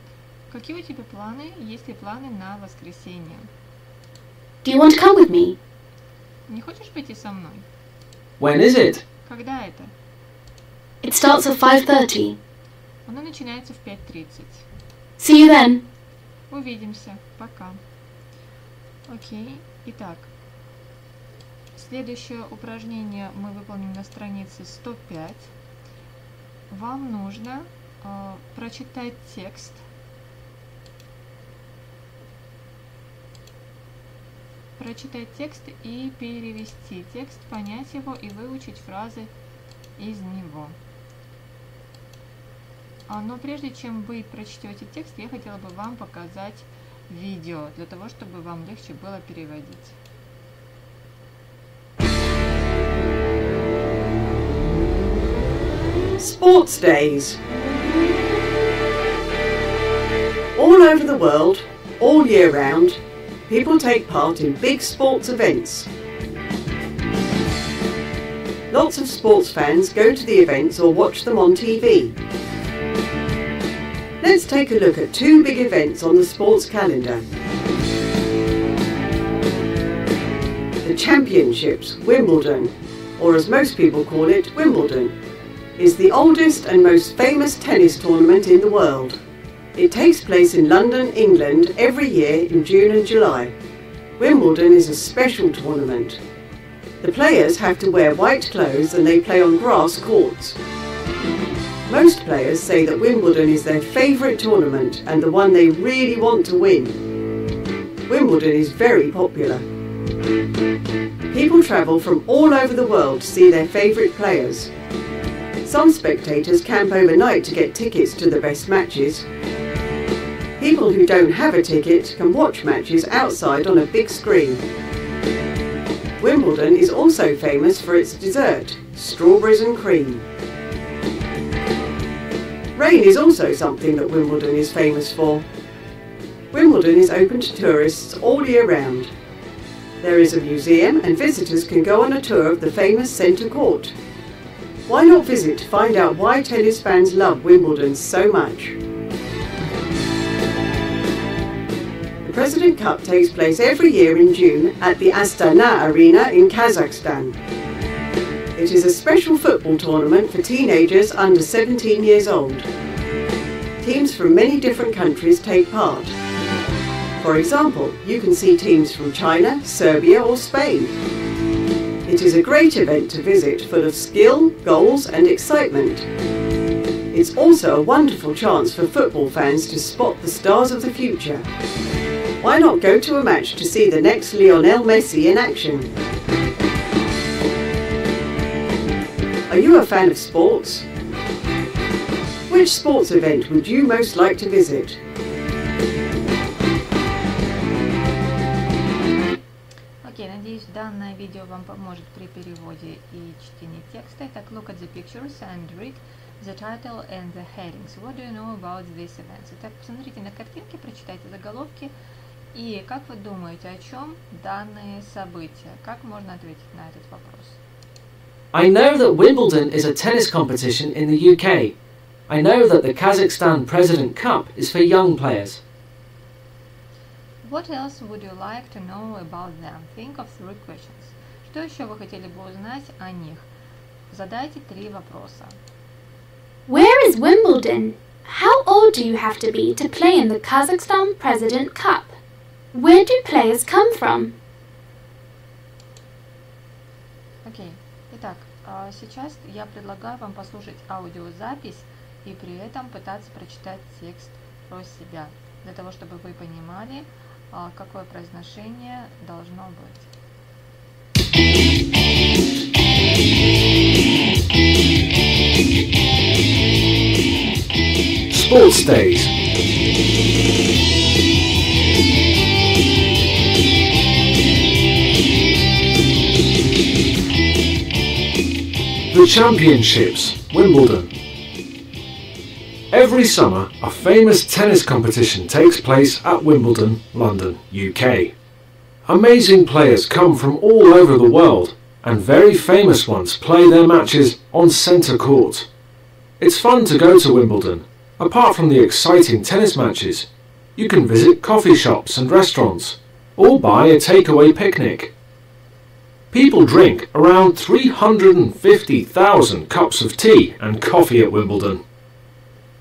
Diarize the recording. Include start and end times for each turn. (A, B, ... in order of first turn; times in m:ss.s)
0:00.5-0:03.5 A
0:04.6-0:05.6 B
0:06.5-0:07.6 A
0:08.4-0:09.0 C
0:09.2-0:09.9 A
0:11.0-0:12.4 B
0:13.1-0:14.6 A
0:15.2-0:15.8 B
0:16.5-0:17.8 A
0:19.1-0:20.3 A
0:21.8-0:25.5 A
0:26.7-0:29.8 A
0:34.8-0:39.3 A
0:40.0-0:40.8 A
0:43.1-0:50.0 A
0:56.2-0:57.4 D
1:00.6-1:05.9 D
1:08.7-1:12.2 D
1:14.2-1:17.2 D
1:20.8-1:25.1 D
1:25.8-1:29.2 D
1:29.8-1:33.5 D
1:34.2-1:36.2 D
1:37.0-1:40.6 D
1:41.9-1:47.0 D
1:48.1-1:49.6 D
1:51.3-1:54.7 D
1:55.6-1:59.2 D
2:00.6-2:04.6 D
2:06.2-2:10.2 D
2:12.8-2:15.4 D
2:16.5-2:19.1 D
2:20.0-2:23.9 D
2:24.9-2:28.8 D
2:32.2-2:37.4 D
2:38.6-2:42.7 D
2:43.8-2:46.1 D
2:47.2-2:51.0 D
2:52.1-2:56.0 D
2:57.1-3:01.4 D
3:02.4-3:05.9 D
3:09.5-3:10.8 D
3:12.5-3:15.0 D
3:20.0-3:31.9 A
3:32.5-3:37.6 A
3:38.5-3:41.8 C
3:42.3-3:45.6 C
3:47.4-3:53.4 A
3:54.1-3:55.6 A
3:56.7-4:02.1 B
4:02.7-4:04.3 B
4:07.4-4:20.1 A
4:28.3-4:29.3 C
4:39.1-4:41.1 C
4:42.9-4:48.3 C
4:49.1-4:55.7 C
4:56.4-5:05.1 C
5:06.3-5:11.8 C